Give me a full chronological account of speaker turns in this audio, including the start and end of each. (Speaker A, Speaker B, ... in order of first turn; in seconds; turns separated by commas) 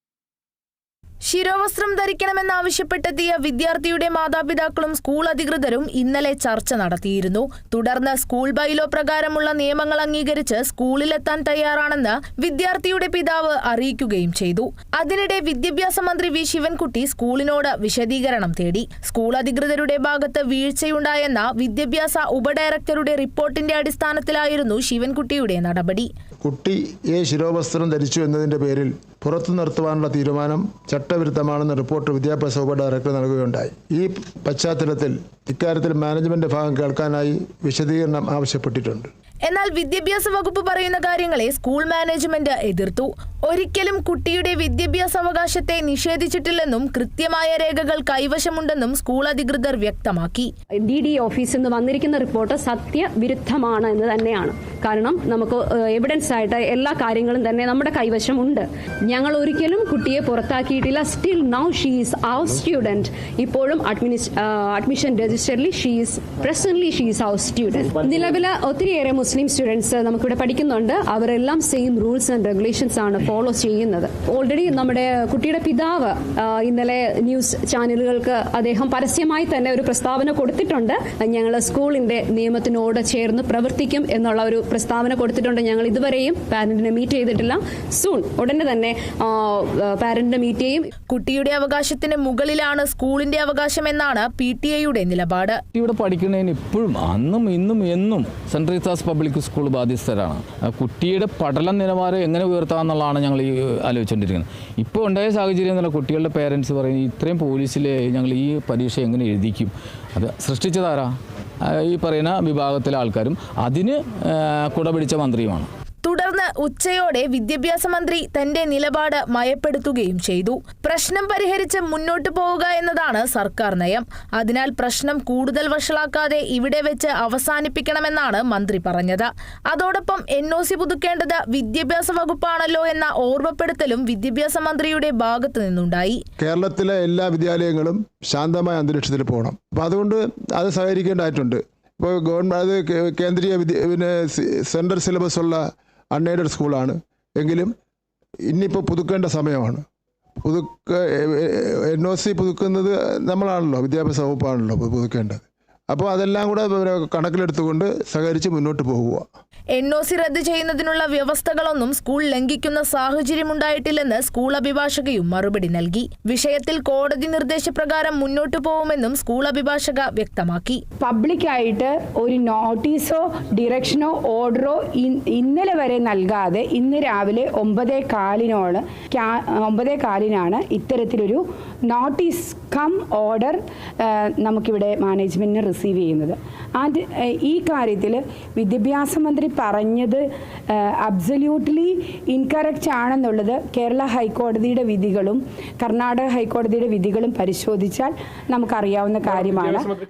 Speaker A: 1.3-26.1, Speaker B: 26.4-39.1, Speaker A: 39.5-50.5, Speaker C: 50.8-90.9, Speaker A: 91.1-95.6, Speaker D: 95.7-111.1, Speaker D: 111.7-114.0, Speaker D: 114.7-115.7, Speaker A: 116.0-136.2, Speaker B: 136.4-147.7, Speaker B: 148.5-149.8, Speaker B: 150.4-159.2, Speaker A: 159.8-170.8, Speaker E: 171.0-190.2, Speaker E: 191.0-199.9